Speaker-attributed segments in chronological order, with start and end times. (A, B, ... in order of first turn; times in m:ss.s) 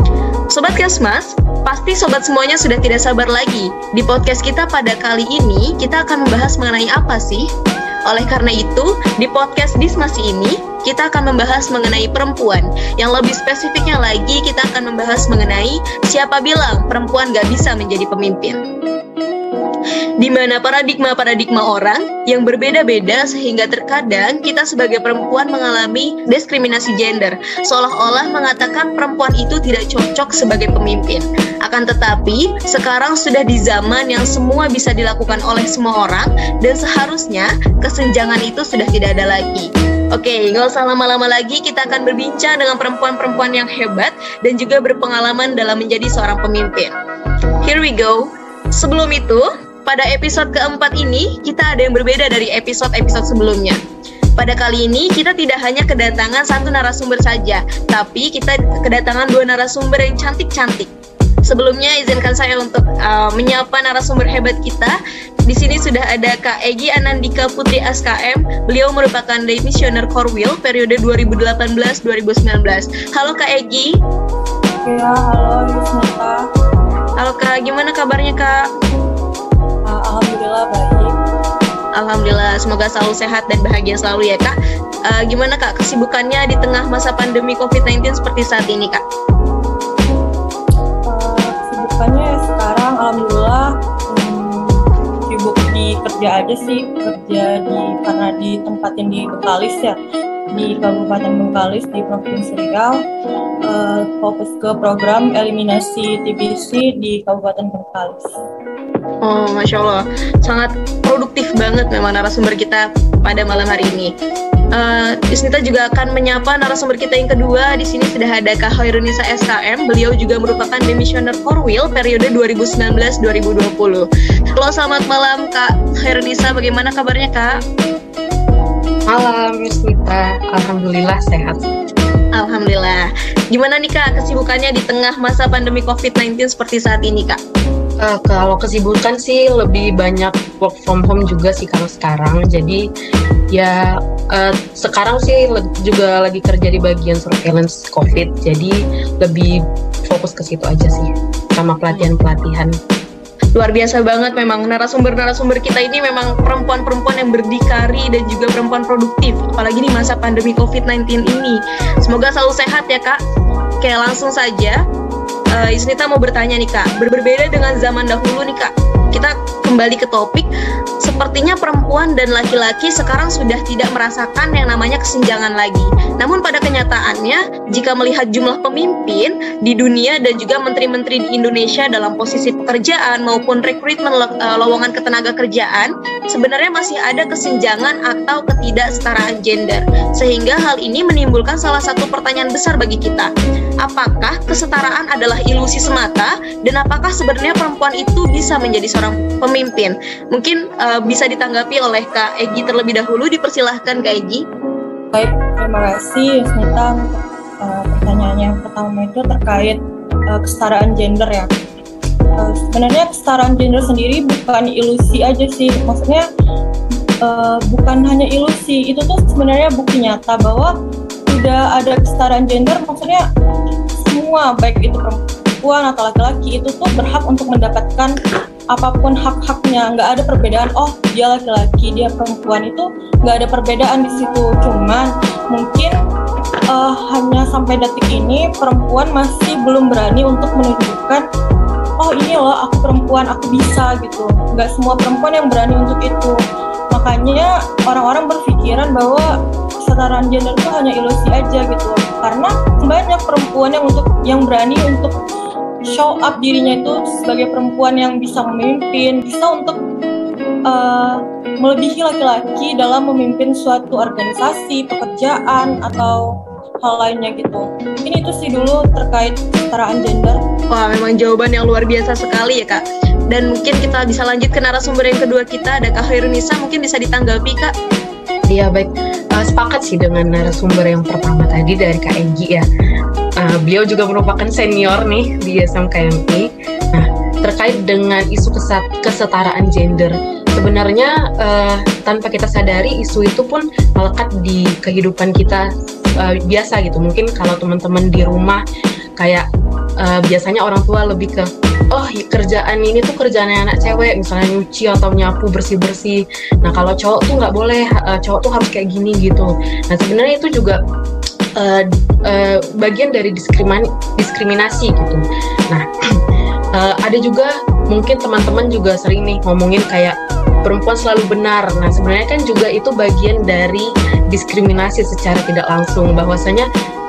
0:00.5-0:07.5 A
0:08.1-0:18.6 A
0:20.2-0:46.9 A
0:47.6-0:53.8 A
0:54.4-1:00.9 A
1:01.4-1:05.0 A
1:05.5-1:14.0 A
1:14.8-1:16.4 B
1:17.2-1:18.7 A
1:19.9-1:21.1 B
1:22.0-1:24.6 A
1:25.0-1:29.0 A
1:31.0-1:40.0 B
1:40.5-1:43.0 B
1:43.6-1:48.3 B
1:49.2-1:54.1 A
1:54.7-2:07.6 A
2:09.1-2:11.6 C
2:12.4-2:17.4 A
2:18.0-2:22.8 C
2:23.5-2:32.7 C
2:33.6-2:43.2 A
2:43.8-2:44.8 A
2:45.5-2:50.5 A
2:51.0-3:13.3 A
3:13.8-3:24.4 A
3:25.1-3:31.5 B
3:32.4-3:36.2 B
3:37.2-3:40.7 B
3:41.3-3:43.2 B
3:44.0-3:48.2 B
3:48.7-3:56.0 B
3:56.7-4:01.2 B
4:02.0-4:06.4 B
4:06.9-4:09.3 B
4:09.8-4:15.1 B
4:15.9-4:19.8 B
4:20.7-4:30.4 B
4:30.7-4:37.7 A
4:38.5-4:42.6 C
4:43.4-4:55.7 C
4:56.2-4:58.6 C
4:59.2-4:59.4 C
5:00.0-5:10.8 C
5:11.6-5:15.8 C
5:16.8-5:26.7 C